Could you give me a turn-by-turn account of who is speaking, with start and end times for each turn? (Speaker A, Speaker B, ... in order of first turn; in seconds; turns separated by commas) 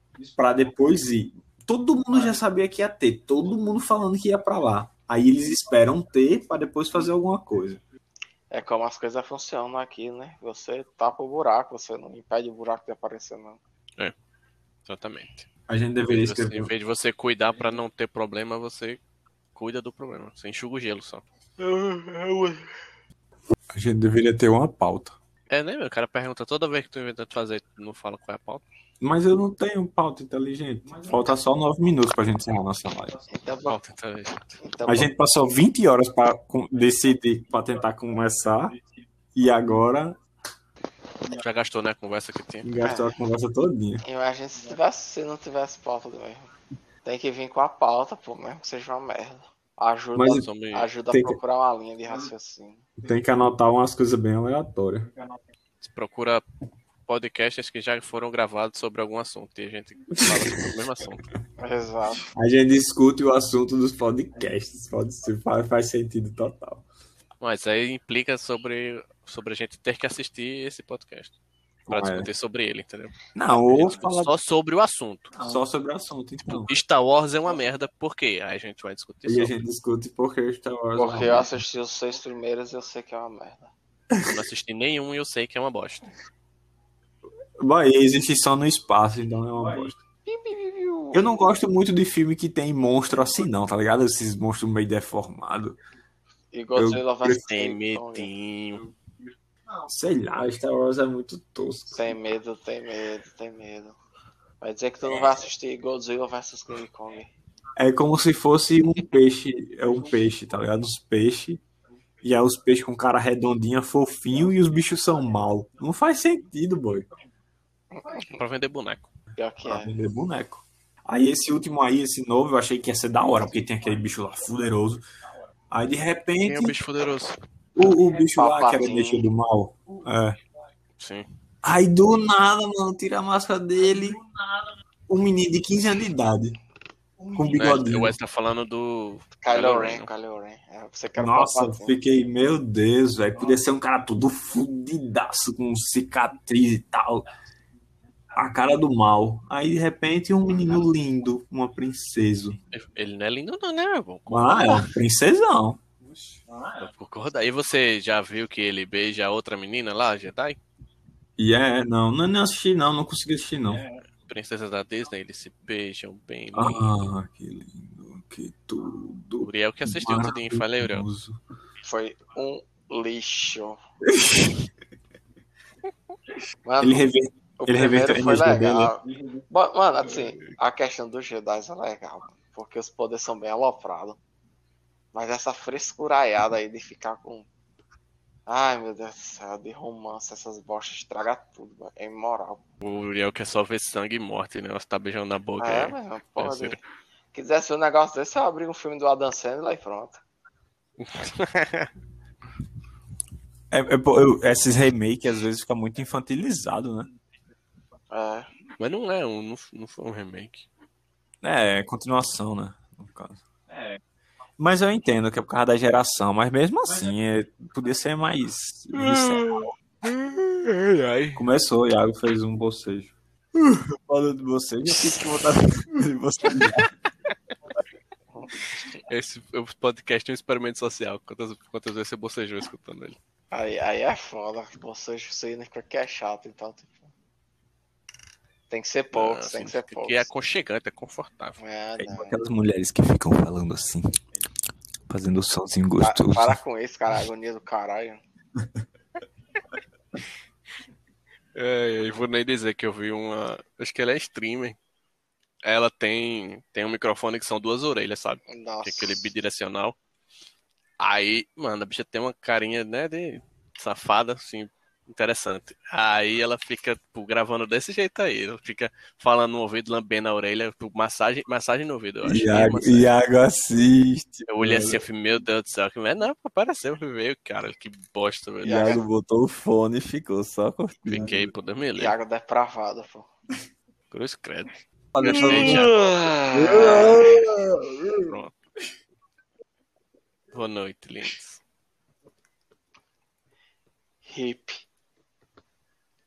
Speaker A: 0.2-7.8, Speaker B: 8.5-13.6, Speaker C: 14.9-15.4, Speaker A: 15.7-16.7, Speaker C: 16.1-19.0, Speaker C: 19.5-21.2, Speaker B: 21.6-22.6, Speaker A: 23.7-25.1, Speaker C: 25.5-28.6, Speaker A: 29.0-33.2, Speaker B: 33.3-33.8, Speaker C: 33.6-34.6, Speaker B: 34.6-35.1, Speaker A: 34.9-38.8, Speaker A: 39.4-40.2, Speaker C: 41.3-42.7, Speaker A: 42.6-44.0, Speaker B: 42.8-43.1, Speaker B: 44.0-46.5, Speaker B: 47.0-52.9, Speaker A: 50.1-50.4, Speaker C: 50.3-50.9, Speaker A: 51.1-51.4, Speaker A: 53.0-55.1, Speaker C: 55.8-56.4, Speaker C: 57.1-61.2, Speaker A: 60.2-60.4, Speaker B: 61.6-62.3, Speaker A: 62.3-66.8, Speaker C: 67.4-71.3, Speaker A: 71.9-72.3, Speaker C: 71.9-75.4, Speaker A: 73.3-74.3, Speaker A: 75.4-76.7, Speaker C: 76.5-79.6, Speaker A: 79.2-81.6, Speaker B: 81.0-83.7, Speaker C: 84.2-86.1, Speaker A: 87.6-90.0, Speaker B: 90.2-91.2, Speaker A: 91.1-95.8, Speaker B: 96.5-98.3, Speaker A: 96.8-97.4, Speaker C: 97.4-98.9, Speaker A: 99.8-102.1, Speaker B: 101.9-104.0, Speaker B: 104.6-107.3, Speaker A: 107.8-111.6, Speaker A: 112.2-117.1, Speaker B: 117.9-118.4, Speaker C: 118.1-119.1, Speaker B: 119.4-120.0, Speaker A: 119.6-125.0, Speaker A: 125.7-126.8, Speaker C: 126.4-127.4, Speaker A: 127.8-130.4, Speaker B: 128.3-129.3, Speaker C: 131.0-131.2, Speaker A: 131.6-134.2, Speaker A: 135.1-136.6, Speaker A: 137.3-138.2, Speaker C: 137.5-140.1, Speaker B: 139.4-142.0, Speaker A: 141.1-147.3, Speaker A: 148.3-152.6, Speaker C: 152.7-154.9, Speaker A: 154.3-155.8, Speaker C: 156.8-160.6, Speaker A: 161.4-163.8, Speaker C: 164.2-166.9, Speaker A: 166.5-171.4, Speaker C: 169.4-171.1, Speaker B: 171.8-173.8, Speaker A: 174.1-174.7, Speaker B: 176.6-177.0, Speaker A: 176.8-178.9, Speaker B: 177.6-184.2, Speaker C: 180.2-180.5, Speaker B: 185.1-187.5, Speaker B: 188.5-192.6, Speaker C: 192.8-196.8, Speaker B: 195.6-196.8, Speaker B: 197.3-200.2, Speaker C: 201.0-201.9, Speaker A: 203.7-207.1, Speaker B: 208.1-208.5, Speaker C: 208.8-210.7, Speaker A: 211.4-213.4, Speaker A: 214.6-219.6, Speaker C: 218.9-221.4, Speaker A: 221.3-226.9, Speaker C: 224.9-225.2, Speaker C: 229.1-233.2, Speaker B: 233.5-237.1, Speaker B: 238.7-240.3, Speaker C: 239.1-241.6, Speaker B: 241.6-242.4, Speaker A: 242.0-244.1, Speaker A: 245.1-246.6, Speaker B: 246.0-248.2, Speaker C: 251.5-254.8, Speaker C: 255.6-260.0, Speaker B: 258.5-259.3, Speaker C: 261.0-273.1, Speaker A: 272.2-275.0, Speaker C: 274.5-278.8, Speaker B: 278.6-279.0, Speaker A: 278.6-281.5, Speaker C: 281.0-282.2, Speaker B: 281.9-283.3, Speaker C: 284.1-286.1, Speaker A: 285.1-285.9, Speaker B: 285.3-287.5, Speaker A: 286.5-288.3, Speaker C: 286.8-287.2, Speaker C: 288.2-288.6, Speaker C: 290.5-291.6, Speaker B: 294.2-294.8